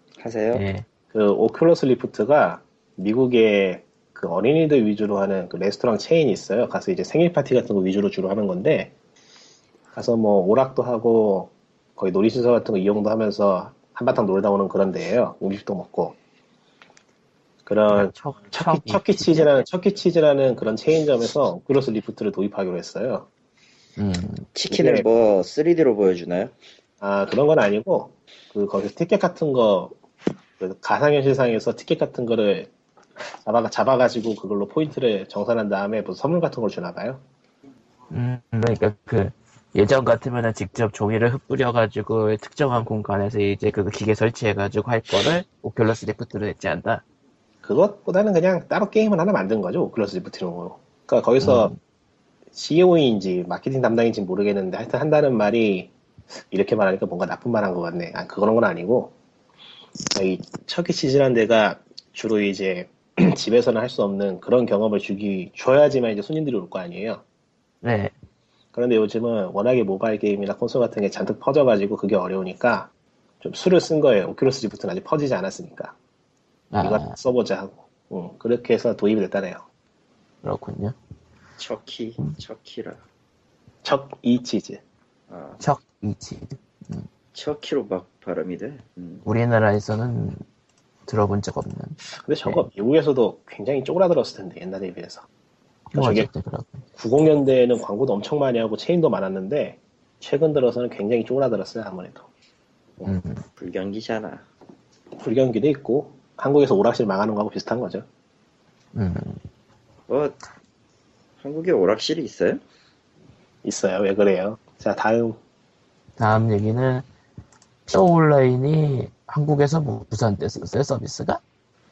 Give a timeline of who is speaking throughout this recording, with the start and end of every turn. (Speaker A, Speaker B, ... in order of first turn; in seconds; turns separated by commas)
Speaker A: 0.2-0.6, Speaker B: 0.5-0.8, Speaker C: 1.1-8.9, Speaker C: 9.9-16.2, Speaker C: 17.6-23.3, Speaker B: 17.9-19.6, Speaker B: 24.0-24.5, Speaker A: 24.5-26.5, Speaker C: 24.7-25.0, Speaker C: 27.0-30.0, Speaker C: 30.6-32.7, Speaker C: 33.4-37.2, Speaker B: 38.1-47.0, Speaker C: 47.6-51.7, Speaker B: 51.4-51.8, Speaker C: 52.5-55.9, Speaker C: 56.5-59.1, Speaker C: 60.1-67.2, Speaker B: 67.8-68.1, Speaker C: 68.7-72.9, Speaker C: 73.4-75.9, Speaker B: 76.7-77.2, Speaker C: 76.8-79.6, Speaker B: 80.4-80.9, Speaker A: 81.6-83.0, Speaker C: 83.8-84.8, Speaker A: 85.3-85.6, Speaker B: 85.6-87.1, Speaker A: 87.3-89.2, Speaker B: 89.2-90.4, Speaker B: 91.1-92.6, Speaker C: 92.1-95.2, Speaker B: 95.9-96.8, Speaker C: 95.9-96.3, Speaker C: 97.0-102.3, Speaker B: 103.0-103.4, Speaker A: 103.6-104.4, Speaker C: 105.2-108.0, Speaker B: 108.9-109.4, Speaker A: 110.1-110.4, Speaker A: 111.4-112.6, Speaker C: 113.6-115.4, Speaker B: 116.2-117.0, Speaker B: 117.9-121.4